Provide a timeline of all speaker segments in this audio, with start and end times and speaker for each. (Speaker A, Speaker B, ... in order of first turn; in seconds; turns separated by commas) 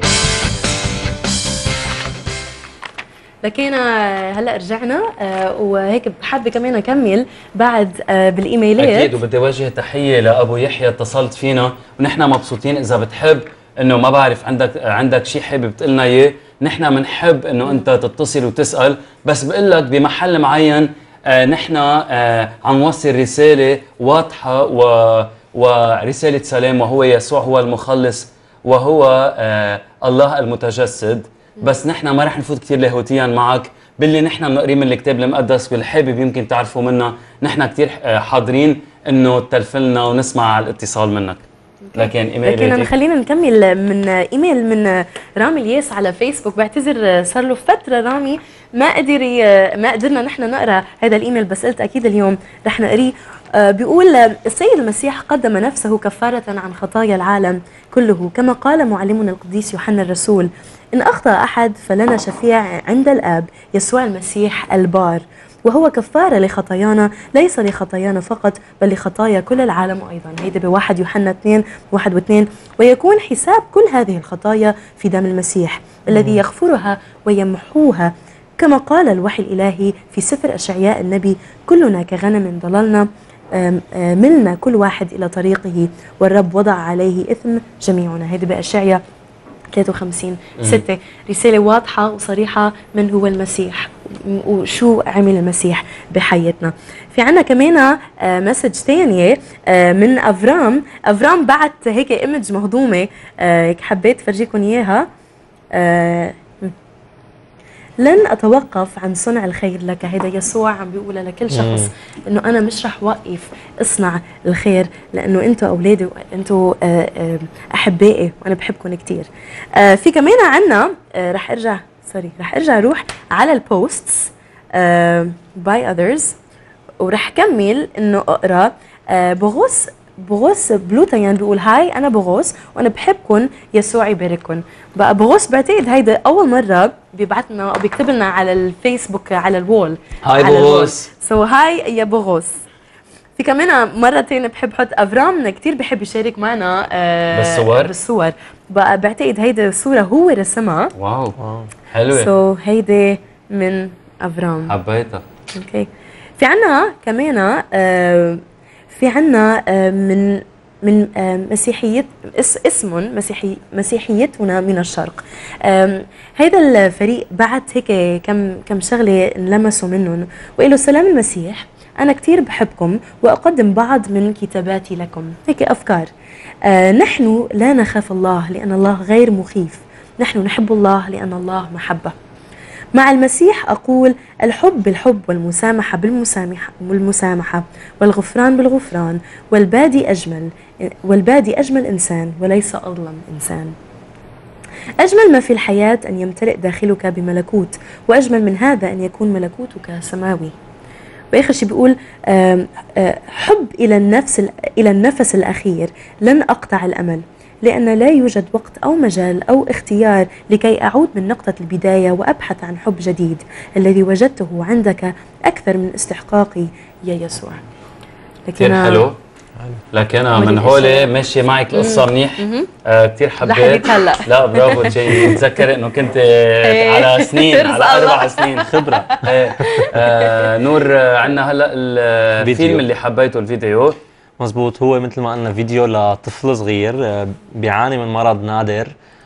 Speaker A: 3.4-9.1, Speaker B: 8.8-41.4, Speaker A: 41.8-89.0, Speaker B: 42.0-42.9, Speaker C: 76.1-76.4, Speaker A: 89.7-105.1, Speaker A: 105.8-106.7, Speaker A: 108.0-126.4, Speaker C: 111.5-111.9, Speaker A: 127.0-142.6, Speaker B: 140.2-141.1, Speaker A: 143.4-150.9, Speaker B: 147.3-147.9, Speaker B: 151.0-151.3, Speaker C: 151.4-151.7, Speaker B: 151.9-152.3, Speaker A: 152.1-154.7, Speaker B: 154.7-155.2, Speaker A: 155.6-176.1, Speaker A: 176.7-182.2, Speaker A: 182.9-193.8, Speaker A: 195.0-200.5, Speaker A: 201.3-217.6, Speaker A: 218.5-219.1, Speaker B: 218.6-219.2, Speaker B: 219.9-234.0, Speaker A: 220.4-221.1, Speaker A: 221.7-222.7, Speaker A: 223.4-225.4, Speaker A: 226.7-228.8, Speaker C: 228.6-229.8, Speaker A: 229.6-230.1, Speaker C: 232.4-232.8, Speaker C: 234.4-238.9